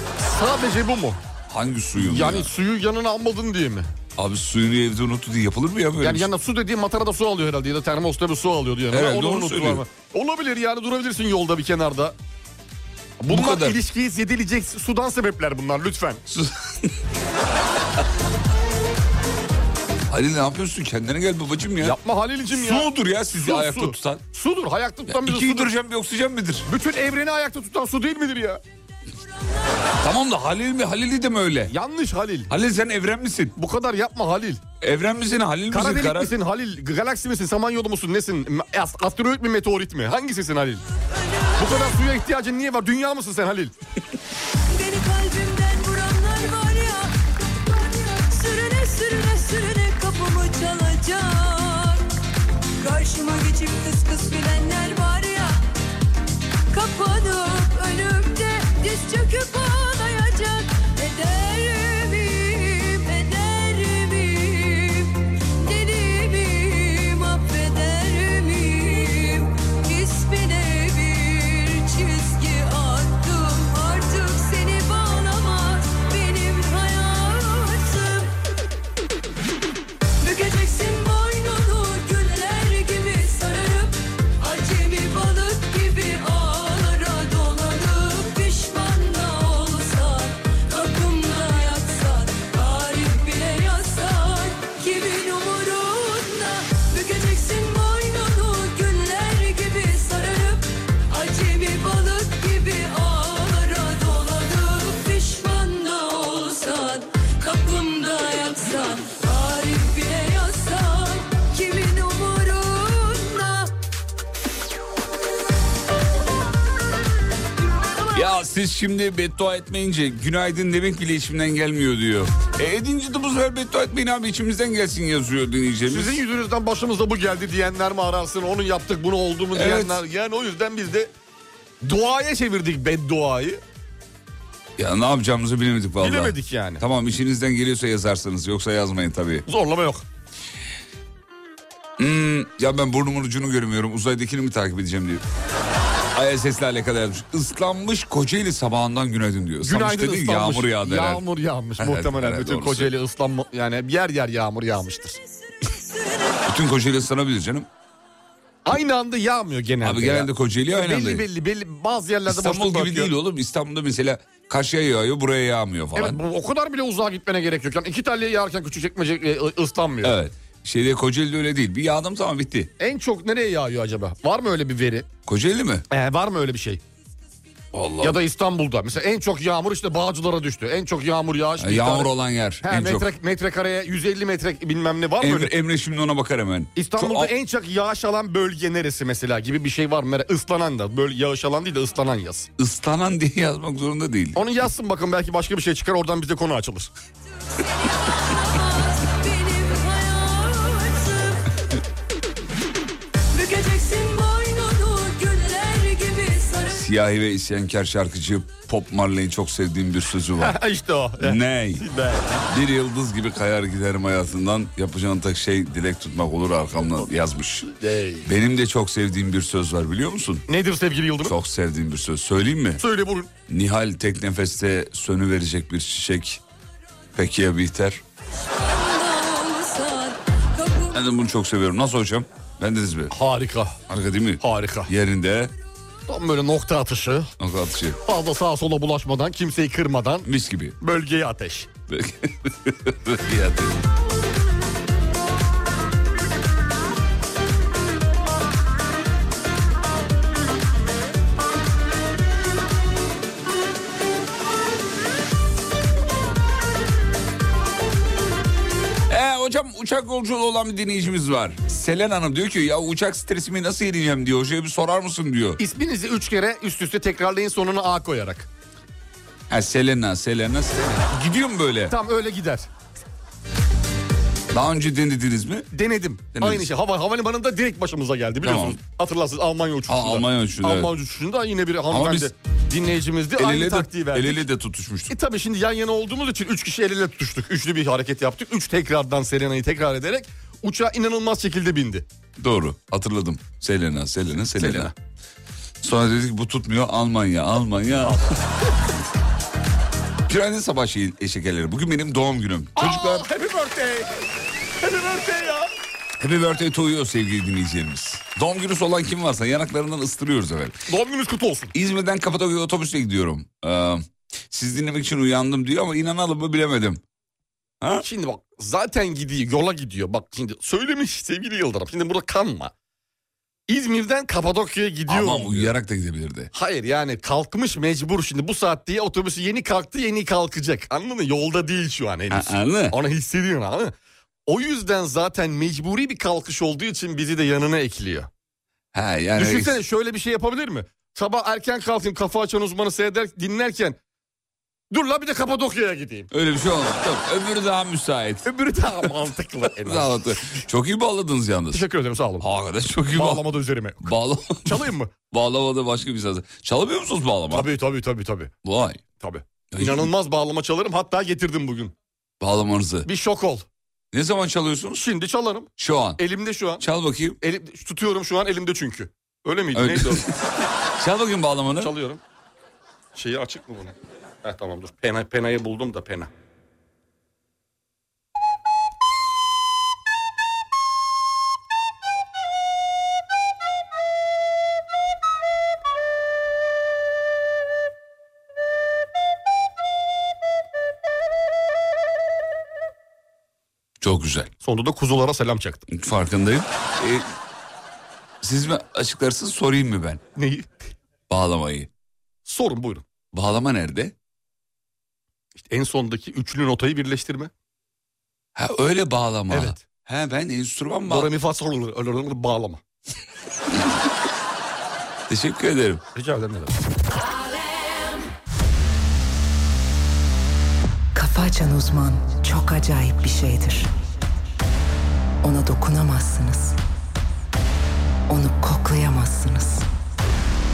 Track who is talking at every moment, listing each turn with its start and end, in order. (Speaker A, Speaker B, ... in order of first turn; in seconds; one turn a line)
Speaker A: 0.2-1.2
Speaker B: 1.5-2.5
Speaker A: 1.9-3.9
Speaker B: 4.2-6.3
Speaker A: 6.0-12.2
Speaker B: 8.9-9.8
Speaker A: 13.2-16.2
Speaker B: 13.3-13.8
Speaker B: 16.3-16.9
Speaker B: 20.1-22.0
Speaker A: 21.8-25.7
Speaker B: 22.5-24.2
Speaker B: 25.1-26.7
Speaker A: 26.7-28.6
Speaker B: 30.0-31.7
Speaker A: 31.7-32.5
Speaker B: 32.5-33.5
Speaker A: 33.5-34.6
Speaker B: 34.8-36.4
Speaker A: 35.7-40.8
Speaker C: 41.1-42.0
Speaker A: 41.6-43.7
Speaker C: 44.7-52.0
Speaker C: 52.8-55.6
Speaker C: 56.7-78.3
Speaker C: 80.2-113.7
Speaker B: 118.1-126.2
Speaker A: 125.9-131.1
Speaker B: 129.5-130.0
Speaker A: 131.8-133.6
Speaker B: 134.8-139.4
Speaker A: 136.0-136.8
Speaker A: 139.5-140.0
Speaker B: 142.0-145.2
Speaker B: 146.1-151.2
Speaker A: 149.6-155.2
Speaker B: 151.8-152.9
Speaker B: 156.5-157.7
Speaker A: 158.6-163.1
Speaker B: 159.8-161.2
Speaker B: 162.2-166.2
Speaker A: 165.9-170.2
Speaker B: 170.0-172.7
Speaker A: 172.8-175.1
Speaker B: 175.3-175.8
Speaker A: 175.9-176.8
Speaker B: 177.7-178.2
Speaker A: 178.0-182.1
Speaker B: 181.6-183.1
Speaker A: 182.6-185.5
Speaker B: 185.2-187.3
Speaker A: 186.8-192.5
Speaker B: 192.6-194.4
Speaker A: 194.3-196.9
Speaker C: 197.6-201.4
Speaker C: 203.3-206.8
Speaker B: 206.7-210.6
Speaker A: 210.4-212.5
Speaker B: 211.2-211.8
Speaker B: 212.5-217.7
Speaker A: 217.8-218.3
Speaker B: 218.2-220.4
Speaker A: 220.5-221.3
Speaker B: 221.2-222.8
Speaker A: 222.8-223.3
Speaker B: 223.5-226.4
Speaker B: 227.1-228.0
Speaker C: 228.4-231.0
Speaker B: 230.9-233.1
Speaker A: 233.1-233.8
Speaker B: 233.9-235.5
Speaker A: 234.4-234.9
Speaker A: 236.1-237.3
Speaker B: 237.4-238.0
Speaker A: 238.1-240.3
Speaker B: 240.2-240.8
Speaker A: 240.8-241.7
Speaker B: 241.9-243.8
Speaker B: 259.1-265.6
Speaker A: 265.6-268.5
Speaker B: 269.5-271.9
Speaker A: 271.9-272.7
Speaker B: 274.5-275.7
Speaker A: 275.7-284.4
Speaker B: 276.4-276.7
Speaker B: 278.4-278.8
Speaker B: 279.9-280.9
Speaker B: 281.9-282.3
Speaker B: 283.4-285.1
Speaker A: 285.1-292.1
Speaker B: 292.4-294.9
Speaker A: 294.6-294.9
Speaker B: 295.8-298.3
Speaker B: 300.3-303.3
Speaker A: 302.8-304.1
Speaker A: 304.8-305.7
Speaker B: 306.2-310.8
Speaker A: 310.9-311.7
Speaker B: 311.7-317.0
Speaker A: 318.0-322.7
Speaker A: 323.7-325.7
Speaker B: 325.1-326.5
Speaker A: 326.5-333.9
Speaker B: 332.3-333.0
Speaker A: 334.4-338.3
Speaker B: 338.9-339.8
Speaker A: 339.3-344.0
Speaker A: 344.9-346.3
Speaker B: 346.3-348.5
Speaker A: 348.4-350.3
Speaker B: 349.8-351.8
Speaker A: 351.7-352.5
Speaker B: 352.4-353.4
Speaker A: 353.1-354.1
Speaker B: 354.0-357.7
Speaker A: 354.6-355.1
Speaker A: 357.5-358.5
Speaker B: 358.6-359.0
Speaker A: 359.2-361.9
Speaker B: 359.7-360.1
Speaker B: 362.4-363.1
Speaker A: 363.1-363.6
Speaker B: 364.1-365.1
Speaker A: 364.9-366.8
Speaker B: 365.8-366.2
Speaker B: 366.8-367.4
Speaker A: 367.4-370.3
Speaker B: 369.7-371.9
Speaker A: 371.8-372.2
Speaker A: 373.1-376.3
Speaker B: 394.0-394.5
Speaker A: 394.6-395.9
Speaker B: 395.9-397.3
Speaker B: 398.4-400.2
Speaker A: 400.4-400.9
Speaker B: 401.3-401.9
Speaker A: 402.4-403.1
Speaker B: 403.3-404.1
Speaker A: 405.6-407.5
Speaker B: 408.5-411.3
Speaker A: 409.5-409.8
Speaker A: 411.1-412.8
Speaker B: 415.3-416.0
Speaker A: 416.1-416.7
Speaker D: 421.1-423.9
Speaker D: 425.4-426.8
Speaker D: 428.3-429.9